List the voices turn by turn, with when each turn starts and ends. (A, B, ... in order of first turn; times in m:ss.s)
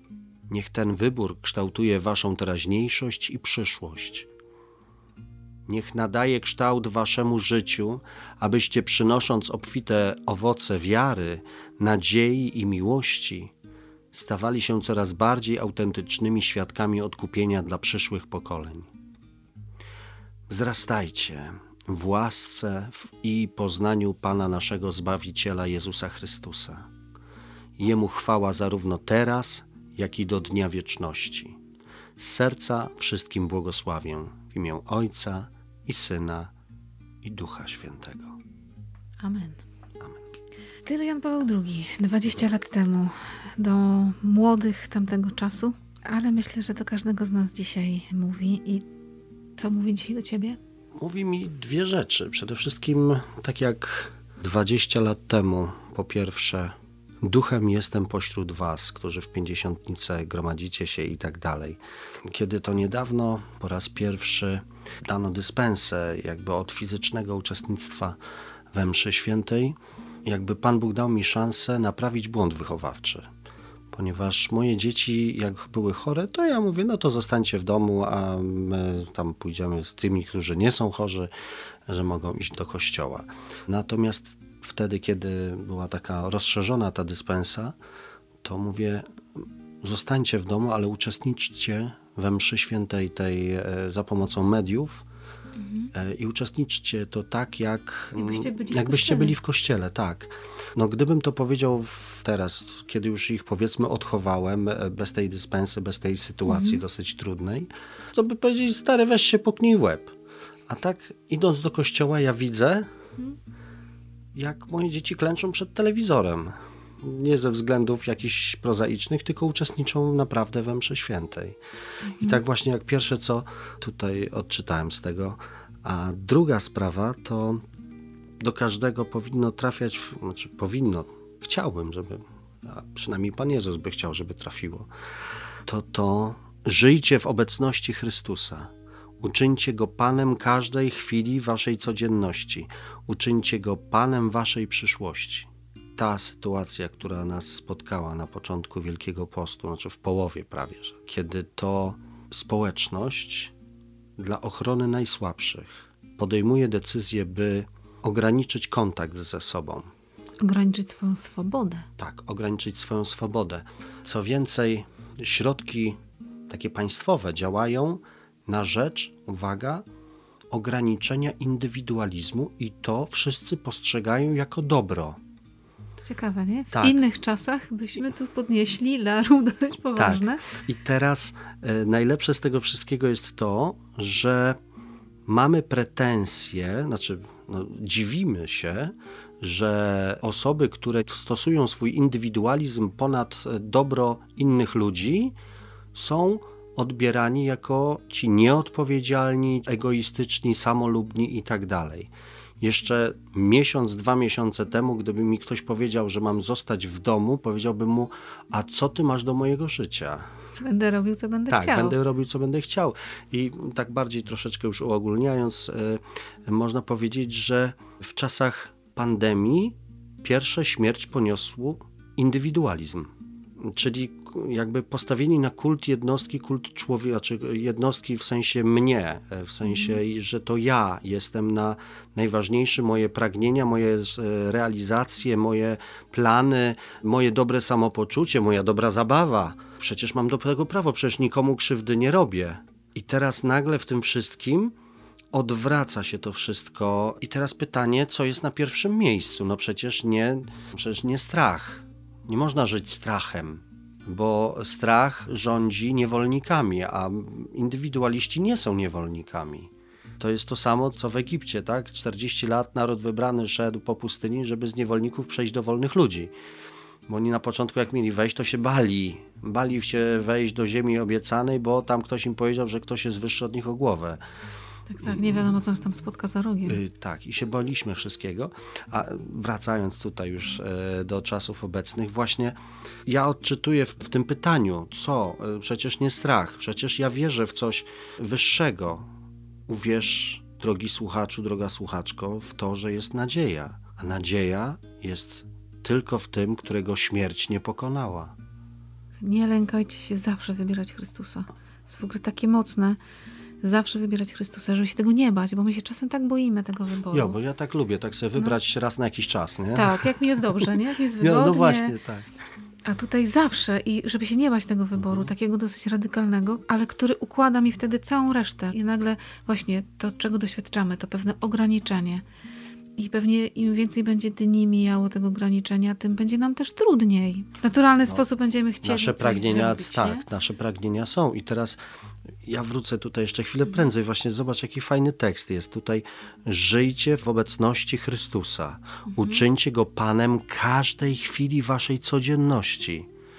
0:00.5-0:04.3 A
0:05.7-0:13.5 A
0:14.1-0:18.9 A
0:20.5-0:26.9 A
0:27.8-0:31.6 A
0:32.2-0:36.5 A
0:37.2-0:38.4 A
0:39.2-0:39.6 B
0:40.8-0:48.9 B
0:49.6-0:50.6 B
0:51.0-1:08.2 A
1:08.7-1:13.3 A
1:13.9-1:21.3 A
1:21.9-1:27.8 A
1:28.4-1:29.0 A
1:29.8-1:35.0 A
1:35.6-1:35.9 B
1:35.9-1:50.1 A
1:38.2-1:39.4 B
1:46.5-1:46.8 B
1:50.7-1:52.9 A
1:54.3-2:01.6 A
2:02.0-2:02.4 B
2:02.1-2:07.6 A
2:08.4-2:14.9 A
2:15.7-2:33.5 A
2:34.2-2:39.9 A
2:40.4-2:41.9 B
2:42.0-2:49.8 A
2:50.5-2:55.2 A
2:56.0-3:00.4 B
2:56.7-2:57.0 A
3:00.0-3:04.6 A
3:05.3-3:15.4 A
3:15.9-3:30.3 A
3:30.6-3:32.0 B
3:31.5-4:04.8 A
4:05.3-4:26.3 A
4:27.1-4:34.2 A
4:34.9-4:36.8 B
4:36.7-4:49.1 A
4:49.7-4:58.3 A
4:59.2-5:03.0 B
5:03.6-5:07.4 B
5:07.1-5:12.3 A
5:09.7-5:12.0 B
5:12.9-5:22.2 B
5:15.0-5:15.3 A
5:23.0-5:30.2 B
5:28.8-5:31.8 A
5:32.4-5:43.1 A
5:39.1-5:39.4 B